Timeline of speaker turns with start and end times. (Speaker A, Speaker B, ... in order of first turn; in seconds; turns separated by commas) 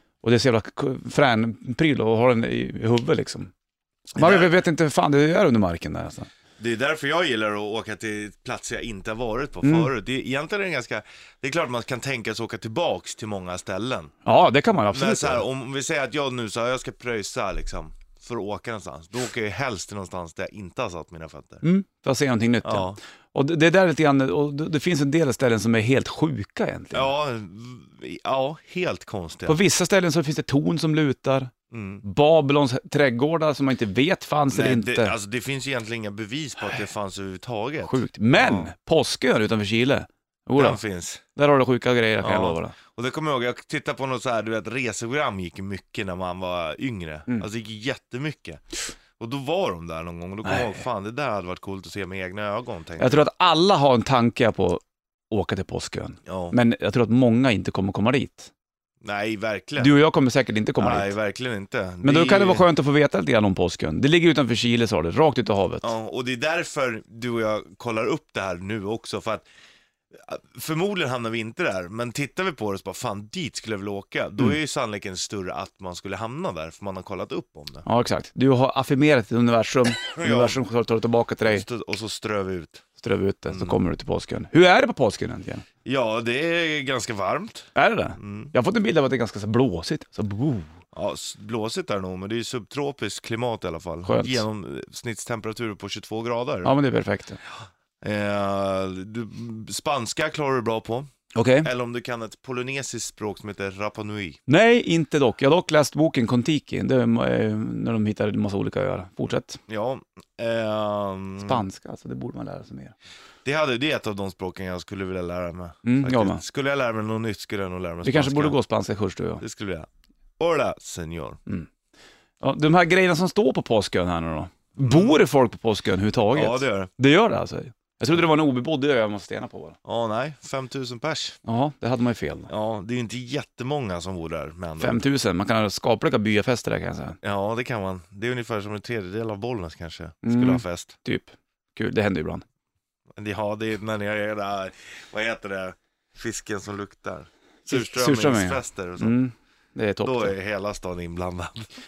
Speaker A: 0.2-3.5, Speaker B: 4.1-4.5, Speaker A: 4.1-6.3, Speaker B: 6.6-14.1, Speaker A: 9.6-9.9, Speaker A: 14.2-15.4, Speaker B: 14.9-21.6, Speaker A: 21.6-27.1, Speaker B: 22.6-23.0, Speaker B: 26.9-29.6, Speaker A: 29.5-35.1, Speaker B: 31.7-32.0, Speaker B: 34.5-38.7, Speaker A: 37.8-40.8, Speaker B: 40.6-41.2, Speaker A: 41.3-42.7, Speaker B: 42.2-48.6, Speaker B: 49.2-53.2, Speaker A: 50.4-50.8, Speaker A: 53.0-58.5, Speaker B: 56.2-56.5, Speaker B: 59.0-59.9, Speaker A: 59.8-61.1, Speaker B: 60.8-62.6, Speaker A: 62.0-65.9, Speaker B: 65.8-69.4, Speaker B: 70.1-77.8, Speaker A: 77.8-81.6, Speaker B: 80.1-80.6, Speaker B: 81.5-82.8, Speaker A: 83.0-85.6, Speaker B: 83.5-83.8, Speaker B: 85.8-88.5, Speaker A: 87.7-90.7, Speaker B: 90.9-96.7, Speaker A: 94.0-94.4, Speaker A: 96.6-97.4, Speaker B: 98.0-101.1, Speaker A: 101.3-101.7, Speaker B: 101.6-104.4, Speaker A: 104.5-109.6, Speaker B: 109.7-111.6, Speaker A: 111.4-112.9, Speaker B: 113.4-118.5, Speaker A: 115.8-116.4, Speaker A: 118.0-119.4, Speaker B: 119.4-119.9, Speaker B: 120.4-121.4, Speaker A: 122.4-129.8, Speaker B: 124.8-125.2, Speaker B: 126.3-126.9, Speaker B: 129.8-131.4, Speaker A: 131.4-132.5, Speaker B: 132.5-135.0, Speaker A: 134.8-137.2, Speaker B: 137.2-140.9, Speaker A: 140.2-142.4, Speaker B: 143.2-149.1, Speaker A: 147.7-150.3, Speaker B: 150.0-151.7